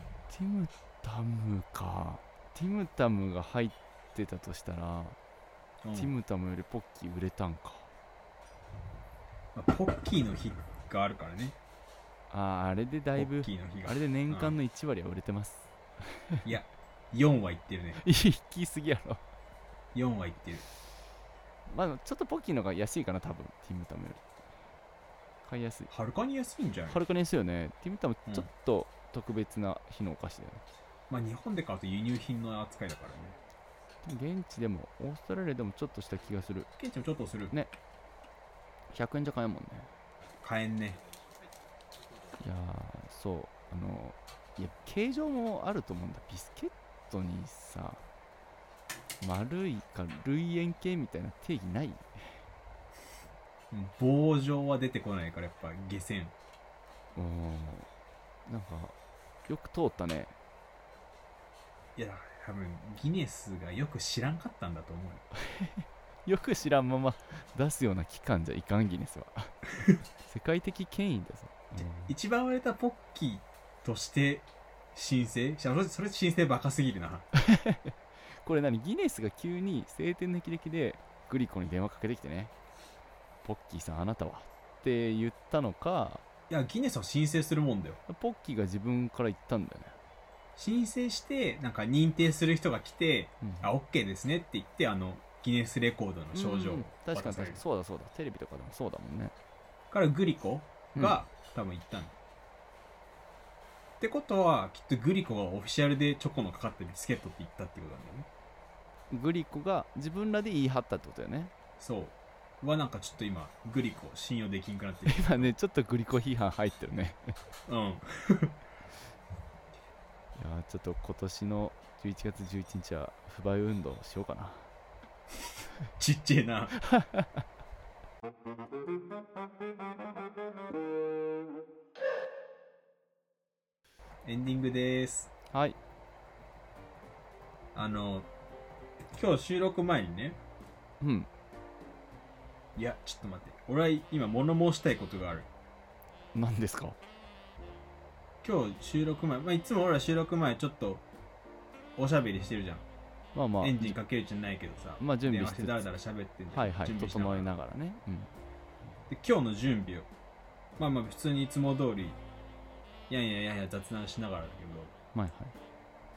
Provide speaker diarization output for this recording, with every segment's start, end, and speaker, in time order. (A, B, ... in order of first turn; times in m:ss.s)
0:00.3-0:05.2 A
0:05.8-0:06.1 B
0:05.9-0:07.9 A
0:09.6-0:11.6 B
0:12.3-0:15.7 A
0:13.2-0:14.6 B
0:16.4-0:18.0 B
0:18.0-0:19.2 A
0:19.9-0:20.6 B
0:21.7-0:24.2 A
0:25.4-0:25.9 A
0:25.9-0:27.0 B
0:26.9-0:30.6 A
0:31.1-0:33.4 B
0:34.0-0:36.7 A
0:36.8-0:37.5 B
0:38.9-0:39.9 A
0:40.4-0:41.0 B
0:42.4-0:48.0 A
0:49.2-0:52.4 A
0:53.7-0:56.3 B
0:57.2-0:57.9 A
0:58.5-0:59.0 A
0:59.5-1:00.4 A
1:02.0-1:05.2 B
1:05.4-1:09.5 A
1:10.2-1:12.1 A
1:11.9-1:17.3 B
1:17.3-1:22.5 A
1:23.4-1:26.2 A
1:26.5-1:28.0 B
1:28.1-1:30.0 A
1:30.6-1:37.6 B
1:33.4-1:33.7 A
1:36.3-1:39.3 A
1:39.9-1:42.2 B
1:44.0-1:48.3 B
1:49.1-1:51.5 A
1:51.8-1:55.5 B
1:55.1-1:57.4 A
1:57.7-1:58.5 B
2:00.4-2:04.7 A
2:06.0-2:06.7 B
2:06.8-2:07.3 A
2:14.2-2:15.3 B
2:15.5-2:15.8 A
2:17.7-2:18.3 B
2:19.1-2:20.4 B
2:21.0-2:21.3 A
2:22.8-2:25.5 B
2:26.3-2:27.0 A
2:28.4-2:31.0 B
2:32.0-2:32.8 B
2:33.4-2:34.0 A
2:33.6-2:37.5 B
2:35.0-2:35.9 A
2:36.5-2:38.3 A
2:39.1-2:40.1 B
2:40.8-2:42.2 B
2:43.1-2:44.9 B
2:45.2-2:45.6 A